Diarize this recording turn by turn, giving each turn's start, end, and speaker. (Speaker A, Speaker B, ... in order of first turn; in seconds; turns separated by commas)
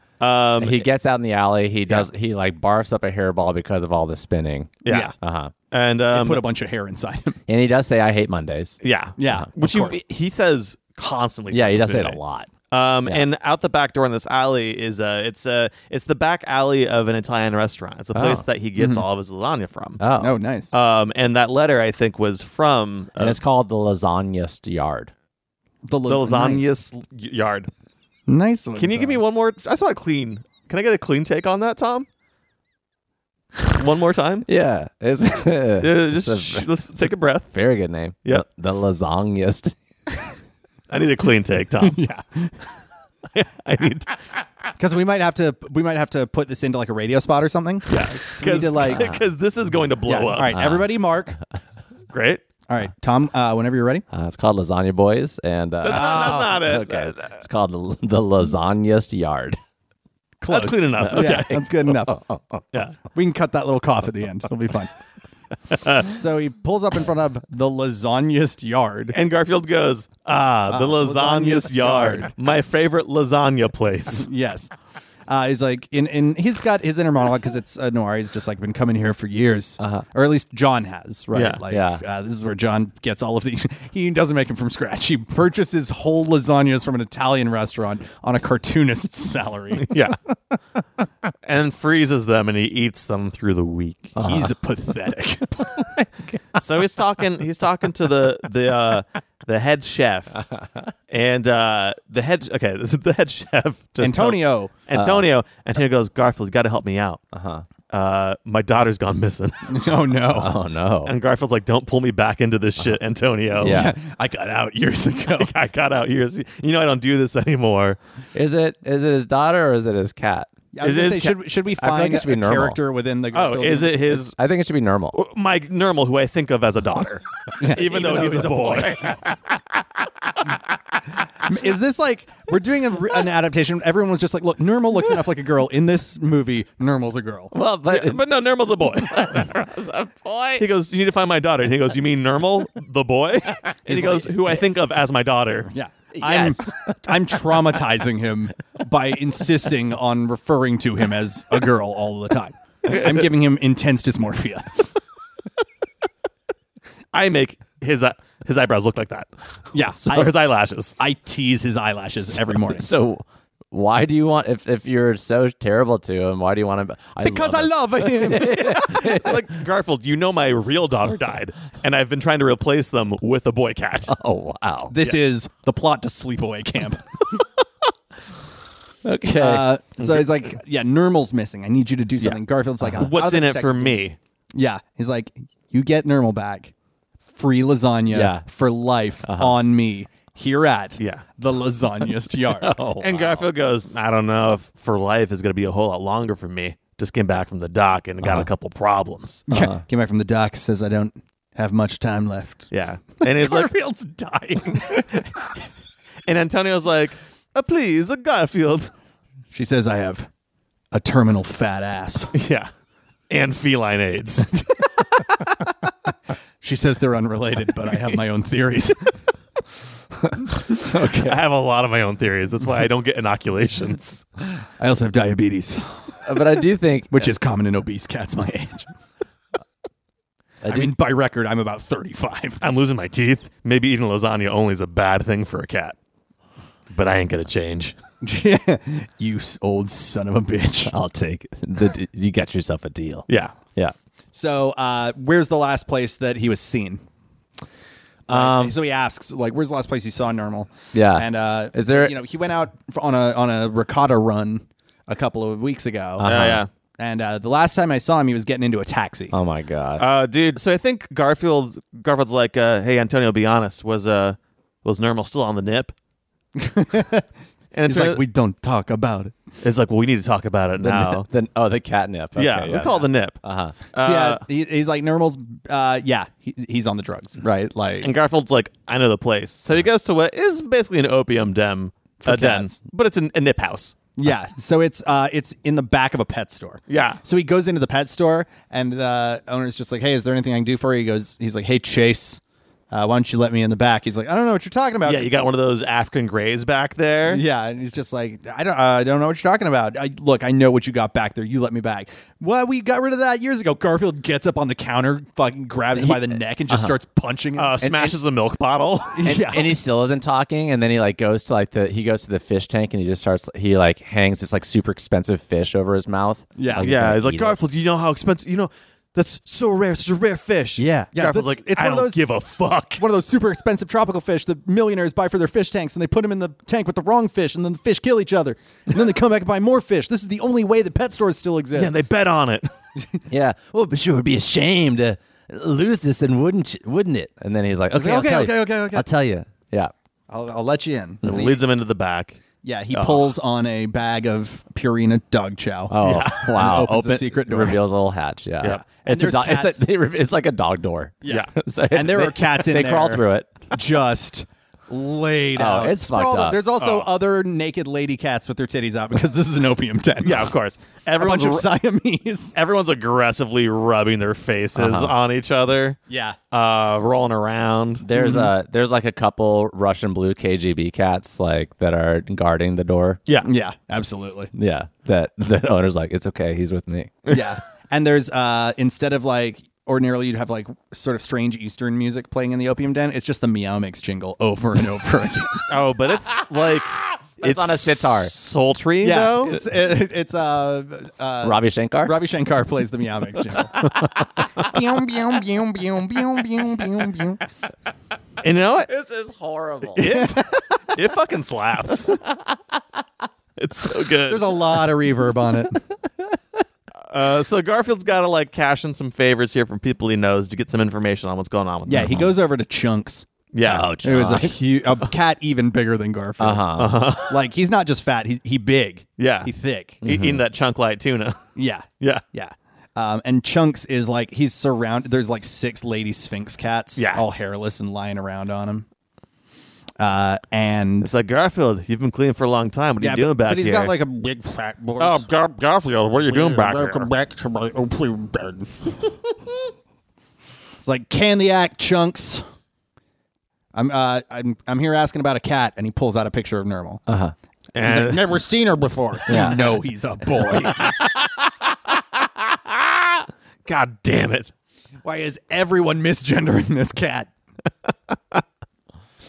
Speaker A: 0.2-0.9, Speaker B: 0.6-5.5, Speaker A: 4.8-5.1, Speaker C: 4.9-5.1, Speaker A: 5.7-6.4, Speaker C: 6.1-7.4, Speaker B: 7.5-8.8, Speaker A: 8.8-12.2, Speaker C: 9.2-10.0, Speaker B: 11.5-12.5, Speaker A: 12.7-20.0, Speaker B: 18.1-18.4, Speaker B: 20.0-20.3, Speaker C: 20.2-20.7, Speaker A: 20.7-23.4, Speaker B: 23.2-25.1, Speaker C: 25.9-26.8, Speaker A: 26.1-27.7, Speaker C: 28.3-29.2, Speaker A: 28.8-32.1, Speaker A: 33.7-34.5, Speaker B: 34.5-39.8, Speaker A: 35.8-37.5, Speaker A: 40.9-42.0, Speaker C: 41.8-42.6, Speaker A: 43.3-44.1, Speaker C: 44.8-49.1, Speaker A: 47.9-50.6, Speaker C: 50.1-51.4, Speaker B: 50.5-50.9, Speaker A: 52.1-52.4, Speaker C: 52.7-54.0, Speaker B: 54.1-59.6, Speaker A: 55.8-57.4, Speaker C: 55.9-56.6, Speaker C: 60.4-62.2, Speaker A: 60.5-61.6, Speaker B: 61.0-62.6, Speaker C: 63.1-64.9, Speaker A: 65.7-66.1, Speaker C: 66.0-69.2, Speaker A: 69.1-74.3, Speaker C: 70.7-72.3, Speaker C: 74.1-74.7, Speaker C: 75.3-89.9, Speaker B: 79.8-80.0, Speaker A: 81.3-81.6, Speaker B: 81.7-82.0, Speaker A: 89.8-90.2, Speaker A: 91.4-94.2, Speaker B: 94.2-94.5, Speaker C: 94.2-95.9, Speaker A: 96.5-100.4, Speaker B: 100.5-100.9, Speaker A: 101.1-107.2, Speaker C: 104.0-104.7, Speaker B: 104.9-105.3, Speaker B: 107.3-107.7, Speaker A: 107.9-109.8, Speaker C: 109.7-110.6, Speaker B: 110.3-111.1, Speaker A: 111.1-113.9, Speaker B: 113.6-113.9, Speaker C: 113.6-115.5, Speaker A: 115.3-118.0, Speaker B: 118.3-120.5, Speaker C: 120.7-124.2, Speaker A: 120.8-121.4, Speaker B: 121.8-122.8, Speaker A: 123.3-124.3, Speaker B: 124.3-125.2, Speaker A: 125.1-129.3, Speaker C: 127.6-129.0, Speaker C: 131.4-137.5, Speaker B: 137.5-138.2, Speaker A: 137.9-139.5, Speaker B: 138.9-140.6, Speaker A: 140.6-145.7, Speaker C: 143.9-144.5, Speaker C: 145.7-154.9, Speaker B: 146.1-147.5, Speaker A: 157.1-159.3, Speaker C: 159.7-160.4, Speaker A: 160.0-160.9, Speaker C: 161.0-162.9, Speaker B: 162.5-169.4, Speaker C: 167.2-169.0, Speaker A: 168.7-174.1, Speaker B: 174.1-174.9, Speaker C: 174.9-177.4, Speaker B: 179.1-179.7, Speaker C: 179.4-184.0, Speaker A: 180.0-180.3, Speaker A: 183.0-184.2, Speaker C: 184.5-186.7, Speaker C: 187.3-192.8, Speaker B: 188.1-188.4, Speaker B: 189.2-189.6, Speaker A: 191.0-191.2, Speaker B: 192.5-193.4, Speaker A: 193.0-199.4, Speaker C: 199.5-202.7, Speaker B: 199.5-199.8, Speaker A: 202.7-203.8, Speaker C: 203.2-205.5, Speaker A: 204.9-205.3, Speaker A: 206.3-208.9, Speaker C: 209.5-210.3, Speaker C: 210.9-212.3, Speaker A: 212.3-212.7, Speaker A: 213.3-214.8, Speaker C: 215.2-215.6, Speaker C: 216.6-219.2, Speaker B: 220.3-221.4, Speaker A: 221.1-224.3, Speaker C: 224.8-225.9, Speaker B: 226.2-227.3, Speaker C: 227.1-228.9, Speaker B: 230.6-230.9, Speaker C: 230.7-232.6, Speaker A: 232.6-235.9, Speaker A: 236.9-237.9, Speaker C: 238.2-240.9, Speaker B: 240.9-243.9, Speaker A: 243.3-243.6, Speaker C: 244.3-247.0, Speaker B: 248.3-248.7, Speaker C: 248.3-256.3, Speaker B: 250.9-252.1, Speaker B: 256.2-256.6, Speaker A: 256.2-256.7, Speaker C: 257.0-259.3, Speaker B: 259.3-260.1, Speaker A: 260.0-265.9, Speaker C: 266.6-267.3, Speaker A: 267.7-268.2, Speaker C: 267.9-269.4, Speaker A: 269.6-271.3, Speaker B: 270.8-273.8, Speaker A: 272.4-273.4, Speaker A: 273.9-274.4, Speaker C: 274.0-278.1, Speaker A: 278.0-284.0, Speaker C: 282.2-282.8, Speaker C: 284.2-295.4, Speaker A: 286.9-287.2, Speaker A: 295.1-297.4, Speaker C: 297.3-307.8, Speaker B: 306.0-306.9, Speaker A: 307.6-309.3, Speaker B: 307.8-308.2, Speaker C: 309.1-309.8, Speaker B: 309.2-317.6, Speaker C: 316.6-316.9, Speaker A: 316.8-323.0, Speaker B: 320.8-321.1, Speaker C: 321.1-322.3, Speaker C: 323.0-331.9, Speaker A: 331.7-332.7, Speaker B: 333.3-339.9, Speaker C: 337.9-339.1, Speaker C: 340.3-341.6, Speaker B: 341.2-341.5, Speaker A: 341.2-342.4, Speaker C: 342.6-347.8, Speaker A: 342.9-343.3, Speaker B: 345.9-353.6, Speaker A: 346.0-346.5, Speaker C: 348.6-349.8, Speaker C: 351.2-360.5, Speaker B: 355.6-356.6, Speaker A: 356.8-357.1, Speaker A: 360.2-361.7, Speaker C: 361.2-362.6, Speaker A: 362.6-366.0, Speaker B: 364.8-365.1, Speaker C: 366.1-366.4, Speaker A: 366.5-368.0, Speaker B: 368.0-373.2, Speaker C: 368.1-368.5, Speaker C: 373.4-374.5, Speaker B: 374.5-377.2, Speaker C: 377.3-385.7, Speaker A: 385.7-389.6, Speaker B: 387.4-388.3, Speaker C: 389.0-393.9, Speaker B: 391.4-392.2, Speaker C: 394.6-397.4, Speaker A: 398.4-398.9, Speaker B: 398.9-400.1, Speaker A: 400.0-402.2, Speaker C: 400.0-400.8, Speaker A: 403.6-404.7, Speaker C: 404.3-405.8, Speaker A: 407.1-412.2, Speaker C: 411.9-413.3, Speaker B: 412.0-412.3, Speaker A: 413.5-413.9, Speaker B: 413.6-414.6, Speaker C: 414.0-420.0, Speaker B: 416.4-417.0, Speaker A: 416.8-417.4, Speaker A: 419.2-421.4, Speaker B: 420.0-420.4, Speaker C: 421.6-428.9, Speaker A: 427.0-427.2, Speaker C: 430.0-431.1, Speaker A: 431.0-433.9, Speaker C: 433.0-435.3, Speaker A: 435.0-437.1, Speaker C: 436.3-439.6, Speaker C: 440.8-442.4, Speaker C: 443.7-447.0, Speaker B: 447.1-447.3, Speaker A: 447.8-448.3, Speaker C: 447.8-451.0, Speaker B: 449.3-449.6, Speaker A: 450.6-451.5, Speaker A: 452.5-454.5, Speaker C: 455.0-457.3